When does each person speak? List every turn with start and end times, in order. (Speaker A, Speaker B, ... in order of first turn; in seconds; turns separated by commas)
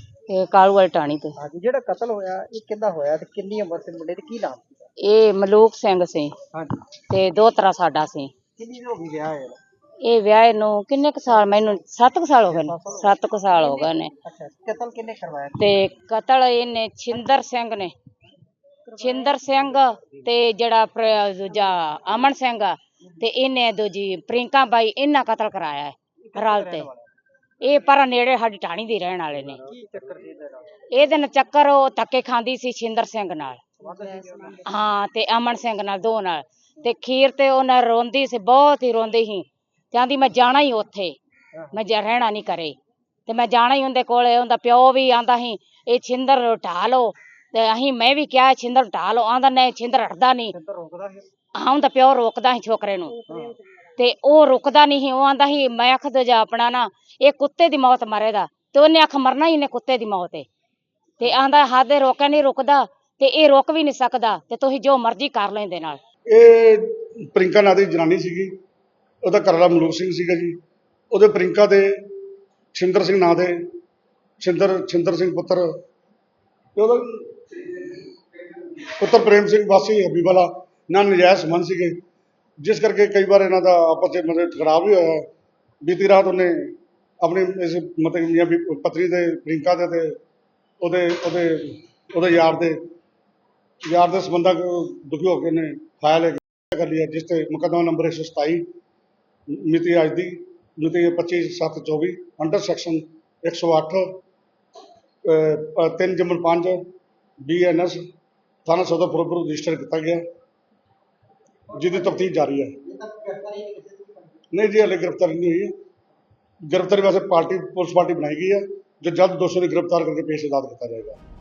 Speaker A: 0.3-1.4, Speaker B: 1.4-4.9, Speaker A: 5.0-6.3, Speaker B: 6.5-6.8, Speaker A: 7.1-8.3, Speaker B: 8.6-9.6, Speaker A: 10.0-14.1, Speaker B: 12.5-15.6, Speaker A: 15.6-17.9, Speaker B: 18.9-20.2, Speaker A: 19.0-26.9, Speaker B: 26.3-27.0, Speaker A: 27.6-29.6, Speaker B: 29.4-30.8, Speaker A: 30.9-33.6, Speaker B: 33.8-34.6, Speaker A: 34.6-41.1, Speaker A: 41.7-50.5, Speaker B: 50.5-51.2, Speaker A: 51.5-53.2, Speaker B: 53.2-53.6, Speaker A: 54.0-60.5, Speaker A: 61.2-66.0, Speaker C: 66.3-68.5, Speaker C: 69.2-70.6, Speaker C: 71.1-72.1, Speaker C: 72.7-73.6, Speaker C: 74.4-75.7, Speaker C: 76.8-78.0, Speaker C: 78.8-82.0, Speaker C: 82.6-85.3, Speaker C: 85.8-90.2, Speaker C: 90.8-92.8, Speaker C: 93.9-98.7, Speaker C: 99.5-104.2, Speaker C: 105.2-106.8, Speaker C: 107.4-108.0, Speaker C: 108.6-110.2, Speaker B: 111.7-114.5, Speaker C: 111.7-112.8, Speaker C: 114.5-115.7, Speaker C: 116.7-121.2